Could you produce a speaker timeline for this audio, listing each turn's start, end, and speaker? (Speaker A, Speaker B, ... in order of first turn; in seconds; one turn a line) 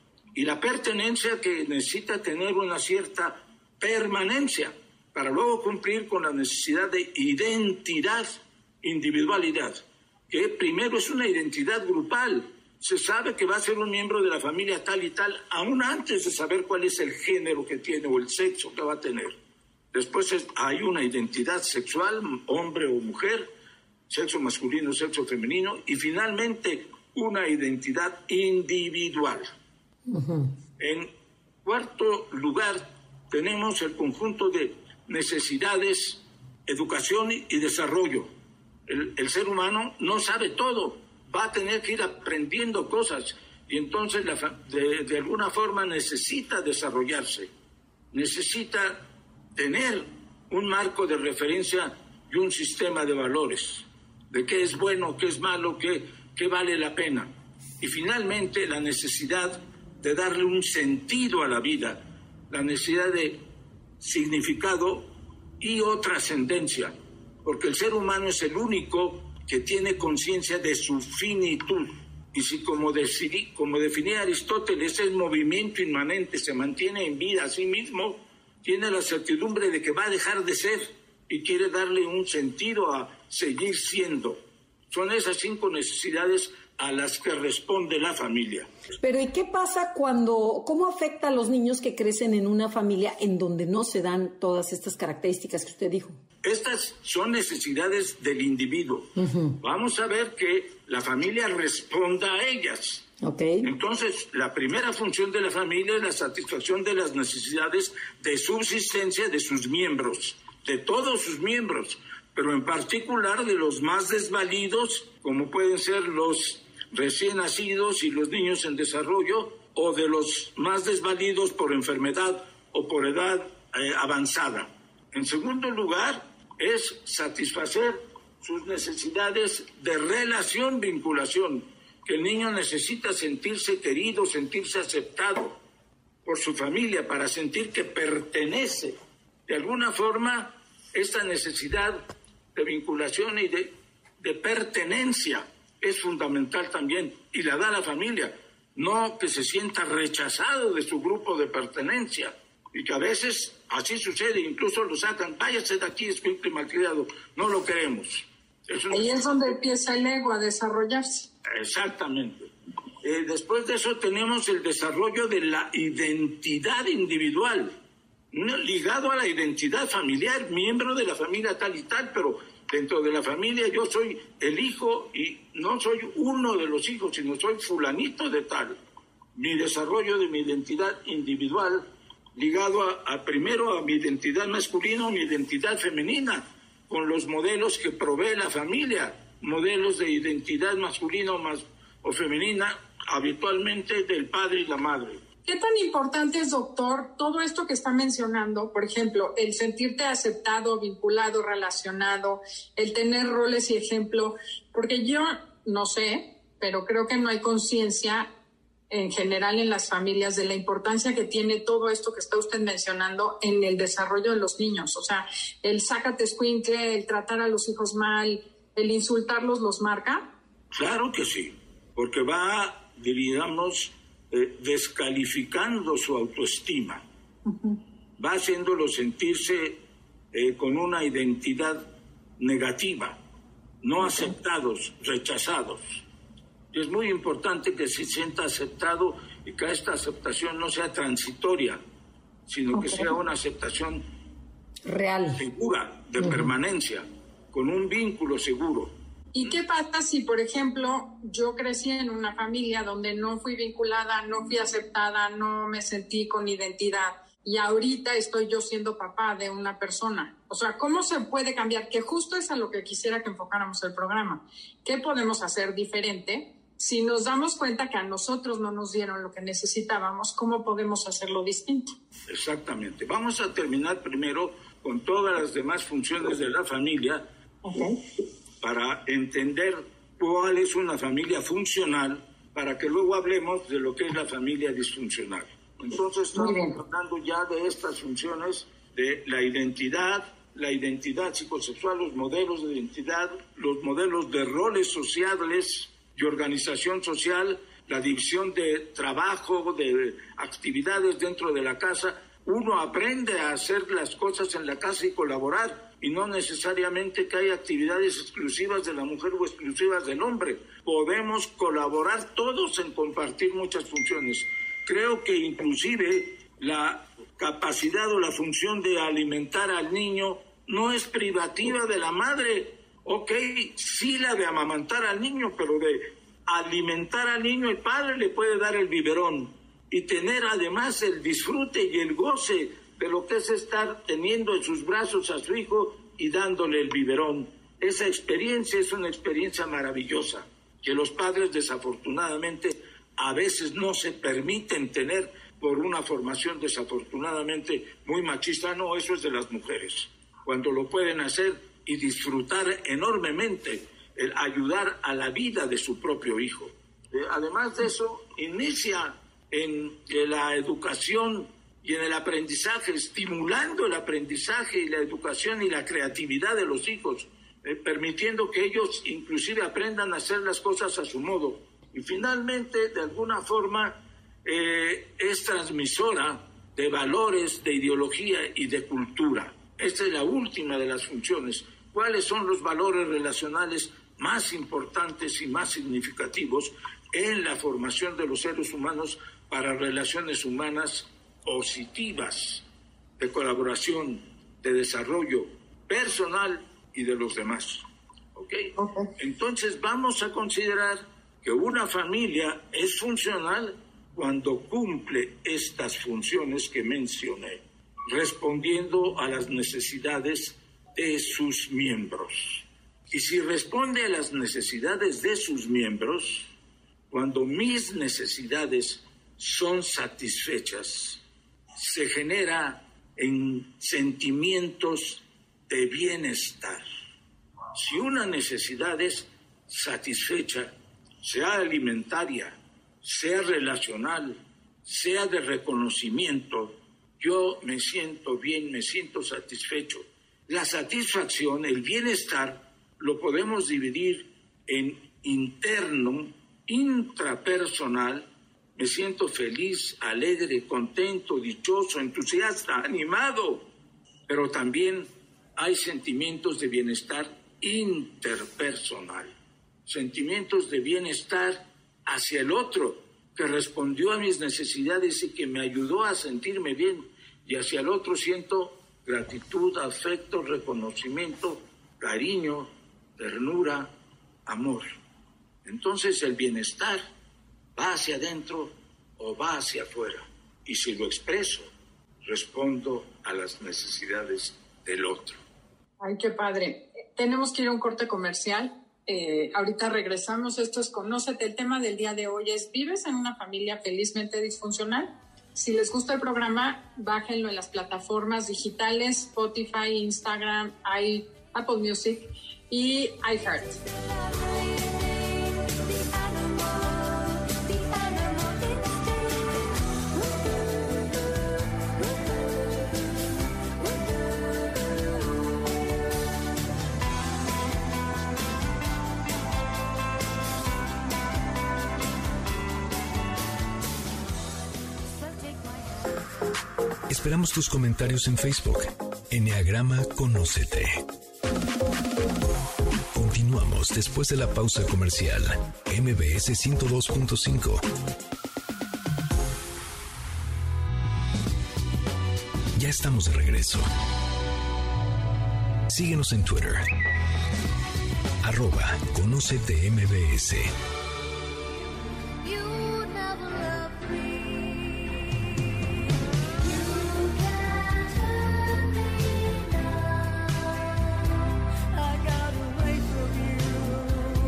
Speaker A: 0.3-9.8
Speaker A: 10.3-19.3
Speaker A: 19.9-23.5
Speaker A: 24.1-29.5
Speaker B: 30.1-30.5
Speaker A: 30.8-31.1
Speaker A: 31.6-38.3
Speaker A: 38.9-47.5
Speaker A: 48.1-63.4
Speaker A: 64.0-65.0
Speaker A: 65.6-88.7
Speaker B: 89.0-96.2
Speaker A: 96.4-103.0
Speaker B: 99.2-99.6
Speaker B: 103.2-103.7
Speaker A: 103.6-135.6
Speaker A: 136.2-138.9
Speaker A: 139.5-142.0
Speaker A: 142.5-159.5
Speaker C: 158.9-161.3
Speaker A: 161.5-162.5
Speaker A: 163.0-167.7
Speaker A: 168.3-178.8
Speaker A: 179.3-181.8
Speaker A: 182.3-195.2
Speaker C: 195.4-208.3
Speaker C: 208.9-220.3
Speaker A: 220.7-227.0
Speaker C: 227.4-227.8
Speaker A: 228.2-229.8
Speaker A: 230.3-231.8
Speaker A: 232.4-233.2
Speaker A: 233.8-236.0
Speaker A: 236.7-241.8
Speaker A: 242.5-244.0
Speaker C: 242.7-243.1
Speaker B: 244.8-245.4
Speaker A: 245.3-248.9
Speaker C: 249.3-271.9
Speaker A: 272.3-277.2
Speaker C: 277.6-278.0
Speaker A: 278.6-392.6
Speaker C: 286.3-286.8
Speaker A: 393.2-397.8
Speaker A: 398.3-416.5
Speaker C: 398.8-399.1
Speaker A: 417.1-421.2
Speaker A: 421.8-426.8
Speaker A: 427.7-453.6
Speaker A: 454.3-459.3
Speaker A: 459.9-473.9
Speaker A: 474.5-474.9
Speaker A: 475.6-477.0
Speaker A: 477.8-481.7
Speaker A: 482.2-485.4
Speaker C: 486.0-503.8
Speaker D: 527.1-531.0
Speaker D: 533.1-537.8
Speaker D: 542.7-543.9
Speaker D: 545.9-546.9
Speaker D: 548.4-550.7